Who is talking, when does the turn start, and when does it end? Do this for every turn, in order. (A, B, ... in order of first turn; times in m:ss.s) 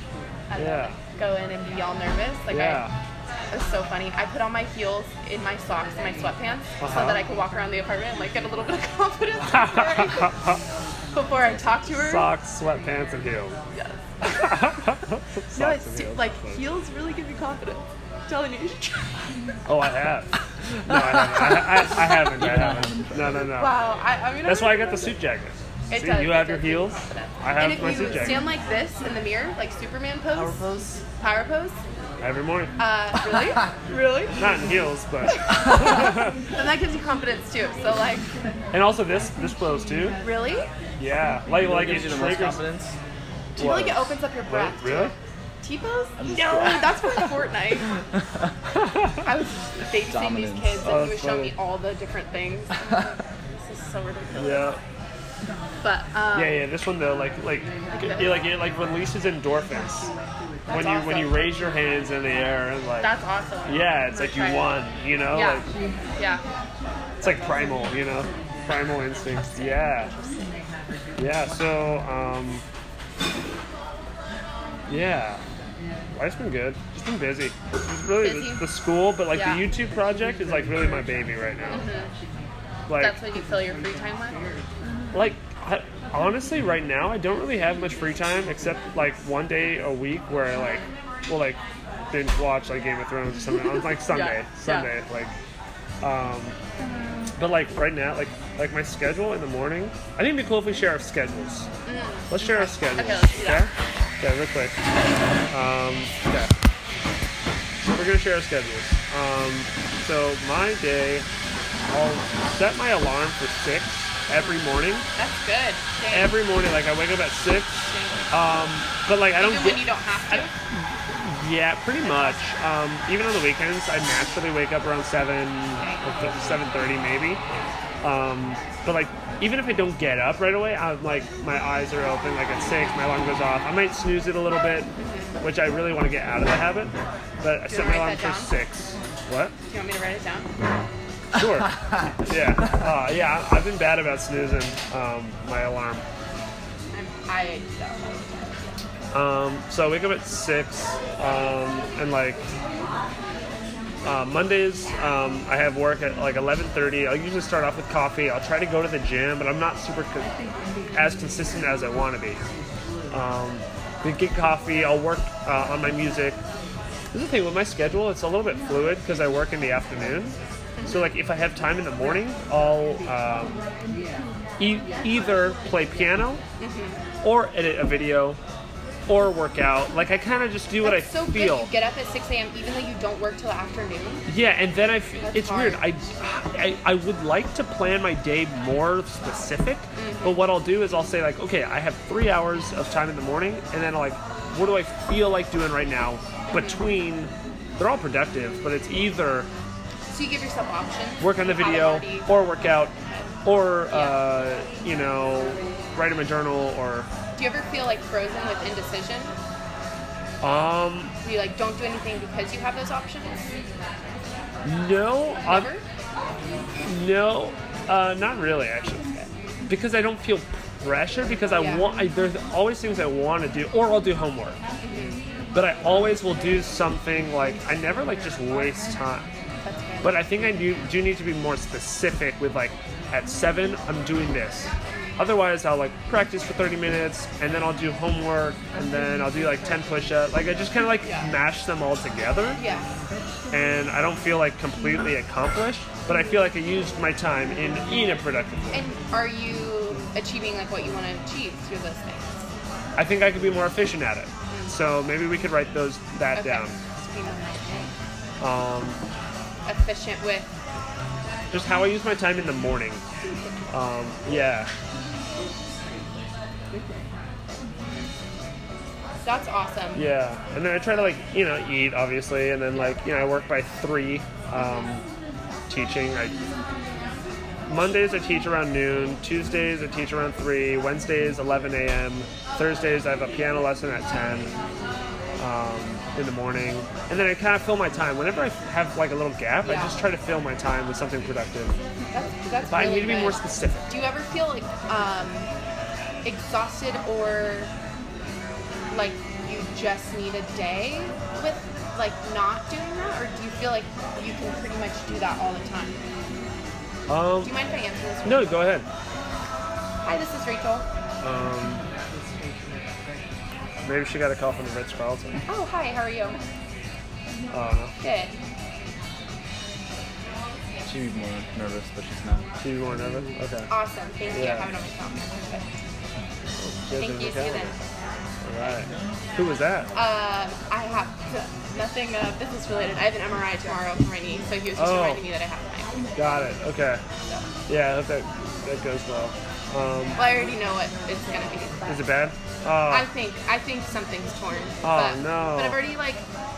0:00.5-0:02.9 A
0:00.6-0:01.0 B
0:02.5-0:02.9 B
0:03.5-0:10.4 A
0:06.8-0:07.2 B
0:09.5-0:10.6 B
0:11.1-0:12.3 A
0:12.0-0:13.6 B
0:13.7-0:14.6 A
0:14.2-0:16.6 B
0:15.5-0:19.5 A
0:19.7-0:23.8 B
0:22.4-0:23.5 C
0:23.5-0:25.1 A
0:24.4-0:28.5 B
0:25.9-0:30.6 A
0:30.4-0:31.0 C
0:31.2-0:31.8 A
0:32.2-0:32.8 B
0:32.8-0:34.5 A
0:34.4-0:36.4 B
0:35.3-0:38.3 A
0:38.7-0:40.2 B
0:40.2-0:40.7 A
0:41.0-0:42.6 B
0:41.5-0:43.0 C
0:43.6-0:45.1 B
0:43.6-0:48.0 A
0:46.2-0:46.9 C
0:48.8-0:49.2 B
0:49.2-0:54.7 A
0:50.0-0:50.8 C
0:50.8-0:51.6 B
0:54.4-0:54.8 B
0:55.8-0:56.6 A
0:56.3-1:00.1 B
0:58.0-0:58.4 A
1:00.7-1:01.5 A
1:00.7-1:03.1 B
1:03.0-1:04.7 A
1:03.6-1:05.7 B
1:05.3-1:06.4 A
1:07.2-1:07.6 A
1:07.2-1:10.1 B
1:09.3-1:10.6 A
1:11.2-1:12.6 B
1:14.9-1:15.4 B
1:16.1-1:21.8 B
1:18.2-1:18.7 A
1:19.3-1:19.7 A
1:21.7-1:22.1 A
1:22.9-1:23.2 B
1:23.0-1:24.4 A
1:25.1-1:31.6 B
1:32.1-1:35.3 B
1:33.6-1:34.9 A
1:36.0-1:36.6 B
1:37.4-1:41.7 B
1:41.8-1:43.7 A
1:42.3-1:44.8 B
1:45.5-1:46.5 B
1:47.9-1:51.3 B
1:51.9-1:55.1 B
1:55.1-1:56.4 A
1:56.1-2:07.4 B
1:57.8-1:58.3 A
1:59.4-2:00.5 A
2:02.0-2:02.4 A
2:05.8-2:06.1 A
2:08.0-2:19.5 B
2:15.0-2:15.4 A
2:17.7-2:18.5 A
2:19.7-2:20.5 A
2:21.4-2:26.0 B
2:26.9-2:28.8 A
2:29.1-2:32.5 B
2:34.0-2:40.4 B
2:40.9-2:42.4 B
2:43.1-2:46.4 B
2:47.1-2:53.6 B
2:50.8-2:51.1 A
2:54.6-2:56.4 B
2:56.6-2:57.0 A
2:57.2-2:58.4 B
2:59.1-3:01.7 B
3:00.8-3:04.3 A
3:04.3-3:19.5 B
3:05.2-3:05.8 A
3:10.0-3:10.4 A
3:16.5-3:16.8 A
3:20.1-3:23.3 A
3:21.2-3:27.1 B
3:23.9-3:24.2 A
3:27.4-3:29.4 A
3:30.4-3:31.1 B
3:31.2-3:33.5 A
3:34.6-3:35.7 B
3:35.5-3:35.8 A
3:36.8-3:44.6 B
3:41.6-3:41.9 A
3:44.8-3:45.2 A
3:45.5-3:49.3 B
3:49.6-3:50.2 A
3:50.0-4:02.6 B
4:01.0-4:01.3 A
4:02.6-4:02.9 A
4:03.5-4:08.8 B
4:08.7-4:12.5 A
4:13.0-4:16.8 B
4:14.5-4:14.8 A
4:16.3-4:17.9 A
4:18.4-4:19.0 B
4:19.7-4:20.5 A
4:21.5-4:23.0 B
4:23.7-4:24.7 B
4:29.2-4:30.1 A
4:30.0-4:35.0 B
4:34.6-4:34.9 A
4:35.7-4:36.4 B
4:37.7-4:44.5 B
4:45.4-4:51.8 B
4:49.6-4:50.0 A
4:52.1-4:55.5 A
4:52.7-4:54.0 B
4:56.2-4:57.7 A
4:58.9-5:06.0 A
5:07.1-5:07.6 B
5:07.4-5:08.7 A
5:08.2-5:08.9 B
5:10.0-5:10.9 A
5:11.2-5:11.8 B
5:13.8-5:15.4 B
5:15.5-5:16.4 A
5:17.5-5:17.9 B
5:18.0-5:18.4 A
5:20.8-5:22.5 C
5:22.6-5:23.7 B
5:23.7-5:25.7 A
5:24.3-5:24.7 B
5:26.6-5:27.7 B
5:27.0-5:27.8 A
5:28.4-5:29.9 B
5:29.9-5:36.0 A
5:34.8-5:35.2 B
5:36.2-5:37.0 B
5:37.7-5:40.2 B
5:40.2-5:42.2 A
5:41.9-5:43.1 B
5:42.9-5:46.2 A
5:44.8-5:45.8 B